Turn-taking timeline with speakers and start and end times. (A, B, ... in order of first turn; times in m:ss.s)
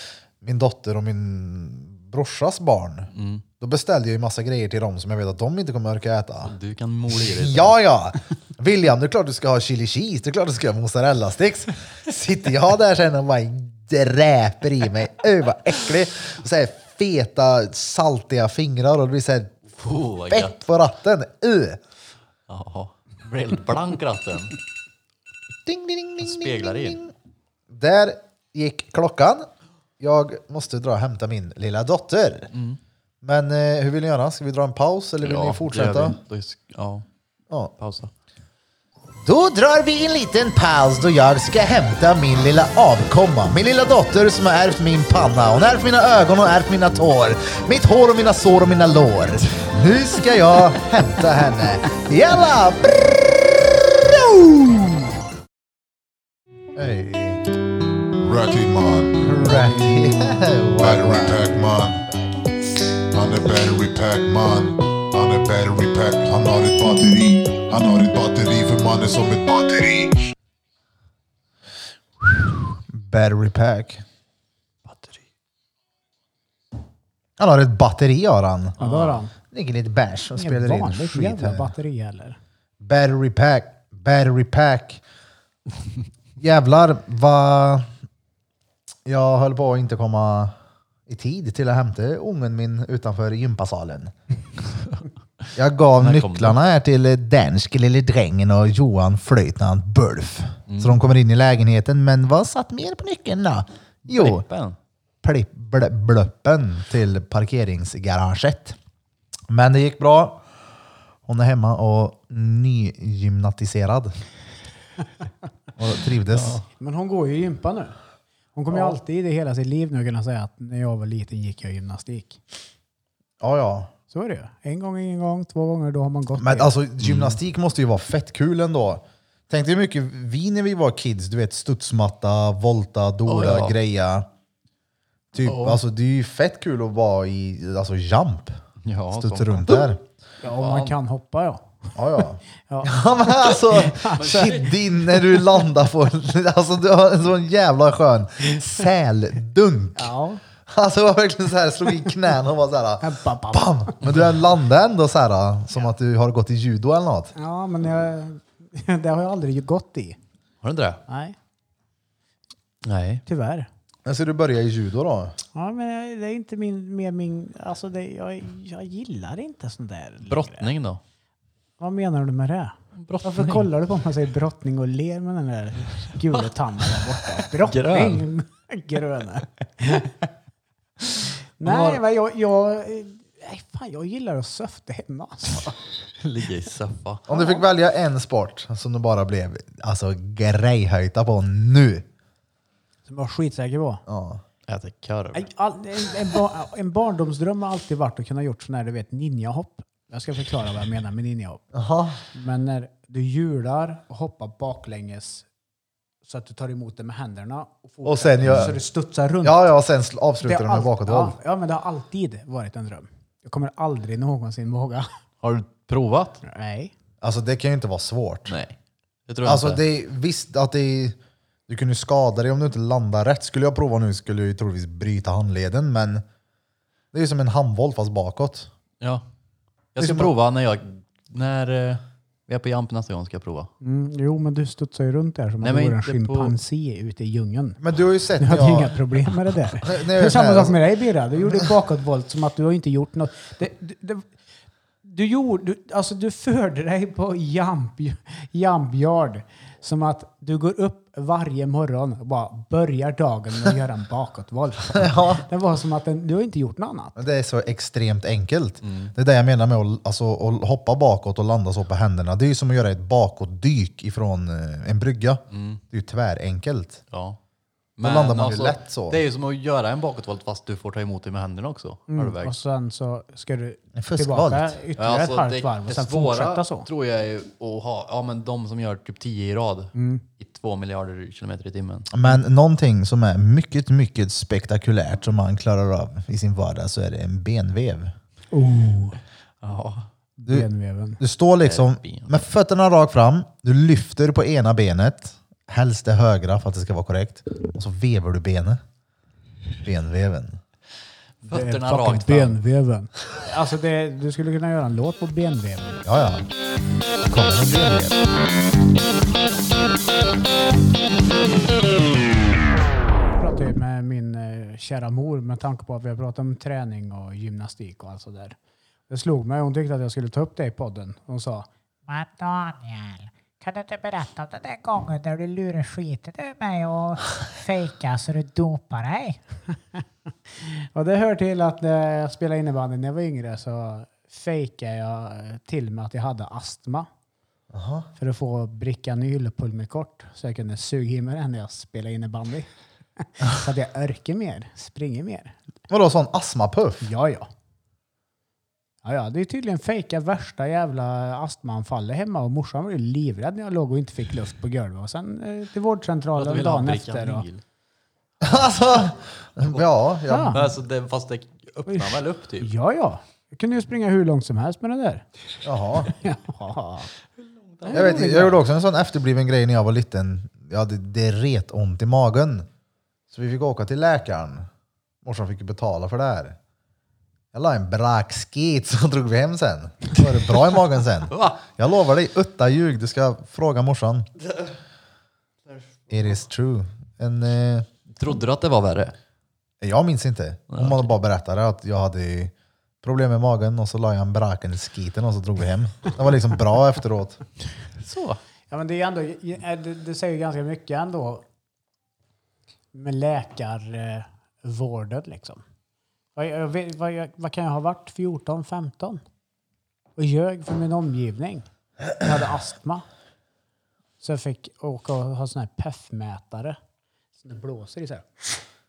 0:00.4-0:06.5 A
0:03.1-0:03.4 B
0:06.4-0:07.8 B
0:07.1-0:19.6 A
0:19.8-0:20.6 B
0:20.3-0:21.8 A
0:22.5-0:24.6 B
0:25.6-0:27.1 A
0:26.2-0:27.0 B
0:27.7-0:29.5 A
0:30.0-0:32.5 A
0:32.5-0:32.8 B
0:33.2-0:36.2 A
0:35.2-0:37.0 B
0:37.8-0:38.1 B
0:39.2-0:55.1 A
0:56.7-0:57.4 A
0:58.2-0:59.2 C
0:59.2-1:01.5 A
0:59.2-1:00.1 D
1:00.8-1:02.0 C
1:03.1-1:10.3 C
1:12.2-1:14.0 A
1:14.9-1:15.2 B
1:17.4-1:18.8 A
1:18.8-1:19.2 B
1:18.8-1:19.3 D
1:19.5-1:21.7 A
1:20.4-1:22.4 D
1:22.8-1:25.0 A
1:26.4-1:27.9 A
1:29.0-1:30.5 A
1:31.1-1:34.1 A
1:35.5-1:44.4 A
1:36.0-1:36.6 B
1:40.7-1:41.0 B
1:44.1-1:44.8 B
1:45.2-1:48.8 A
1:49.5-1:50.4 A
1:51.2-1:54.1 A
1:55.8-1:56.6 A
1:56.3-1:56.6 B
1:56.7-1:58.0 D
1:58.5-2:02.4 D
2:03.4-2:03.9 A
2:04.1-2:06.7 D
2:06.4-2:14.3 A
2:07.0-2:07.4 B
2:13.2-2:13.8 B
2:15.3-2:18.6 A
2:15.4-2:15.8 B
2:18.8-2:19.9 B
2:19.1-2:20.0 A
2:20.4-2:22.0 D
2:20.5-2:21.0 B
2:21.9-2:30.1 A
2:22.6-2:24.6 D
2:23.9-2:24.8 B
2:29.9-2:30.4 D
2:30.7-2:37.3 A
2:33.0-2:34.0 D
2:37.4-2:40.2 D
2:40.6-2:41.0 B
2:41.1-2:41.4 D
2:42.8-2:43.2 B
2:43.2-2:43.7 D
2:44.0-2:45.4 A
2:45.5-2:50.7 D
2:50.2-2:51.0 B
2:51.8-3:00.1 D
2:53.0-2:53.7 B
2:57.5-2:58.2 B
3:01.6-3:05.7 D
3:01.6-3:02.0 B
3:06.2-3:07.2 B
3:07.3-3:12.0 A
3:07.3-3:07.6 D
3:13.0-3:14.0 D
3:14.1-3:14.4 A
3:14.7-3:15.5 B
3:15.3-3:21.6 D
3:21.7-3:22.2 A
3:22.3-3:25.5 D
3:26.2-3:29.7 D
3:28.0-3:28.8 A
3:28.4-3:28.7 B
3:29.4-3:31.4 A
3:30.4-3:35.1 D
3:35.4-3:36.4 B
3:36.4-3:36.9 D
3:37.2-3:38.6 A
3:38.5-3:38.7 B
3:39.3-3:39.8 B
3:39.4-3:41.2 A
3:41.7-3:46.2 A
3:47.1-3:48.7 A
3:49.9-3:53.7 B
3:50.0-3:50.3 A
3:53.8-3:57.8 D
3:55.6-3:56.5 B
3:57.8-3:59.0 A
3:58.4-4:04.3 D
3:59.8-4:00.8 A
4:05.0-4:17.2 D
4:14.9-4:15.4 A
4:17.2-4:27.0 A
4:18.8-4:19.1 B
4:25.5-4:25.8 B
4:27.1-4:27.4 B
4:28.0-4:32.5 B
4:28.0-4:29.2 A
4:32.1-4:36.9 D
4:34.0-4:34.8 A
4:35.0-4:42.1 B
4:39.9-4:40.2 D
4:42.1-4:48.1 A
4:48.5-4:49.2 D
4:49.6-4:50.1 B
4:50.4-4:51.2 D
4:51.2-4:58.8 A
4:51.6-4:52.4 B
4:59.8-5:00.6 A
5:01.4-5:02.6 B
5:01.5-5:06.0 D
5:06.0-5:06.4 A
5:07.2-5:08.2 A
5:13.3-5:18.6 D
5:19.1-5:21.7 D
5:22.1-5:29.4 E
5:30.6-5:37.1 D
5:37.7-5:38.1 A
5:38.2-5:45.6 D
5:45.9-5:47.1 A
5:47.0-5:47.5 D
5:49.0-5:57.4 D
5:56.4-5:57.6 B
5:58.4-6:00.7 A
6:00.3-6:00.6 D
6:00.5-6:02.7 B
6:01.9-6:05.2 D
6:05.6-6:06.1 A
6:06.1-6:07.1 D
6:07.6-6:08.1 B
6:07.8-6:08.6 D
6:07.9-6:12.7 A
6:13.3-6:14.7 A
6:15.2-6:16.6 A
6:17.5-6:24.3 A
6:21.3-6:21.6 B
6:25.7-6:26.0 B
6:26.1-6:27.9 A
6:28.2-6:29.1 B
6:29.8-6:37.4 A
6:30.7-6:31.1 B
6:38.0-6:38.4 B
6:38.7-6:41.4 D
6:42.9-6:45.6 D
6:46.3-6:49.2 D
6:50.2-6:51.6 D
6:52.2-6:53.0 D
6:54.2-6:56.8 D
6:57.4-6:58.5 D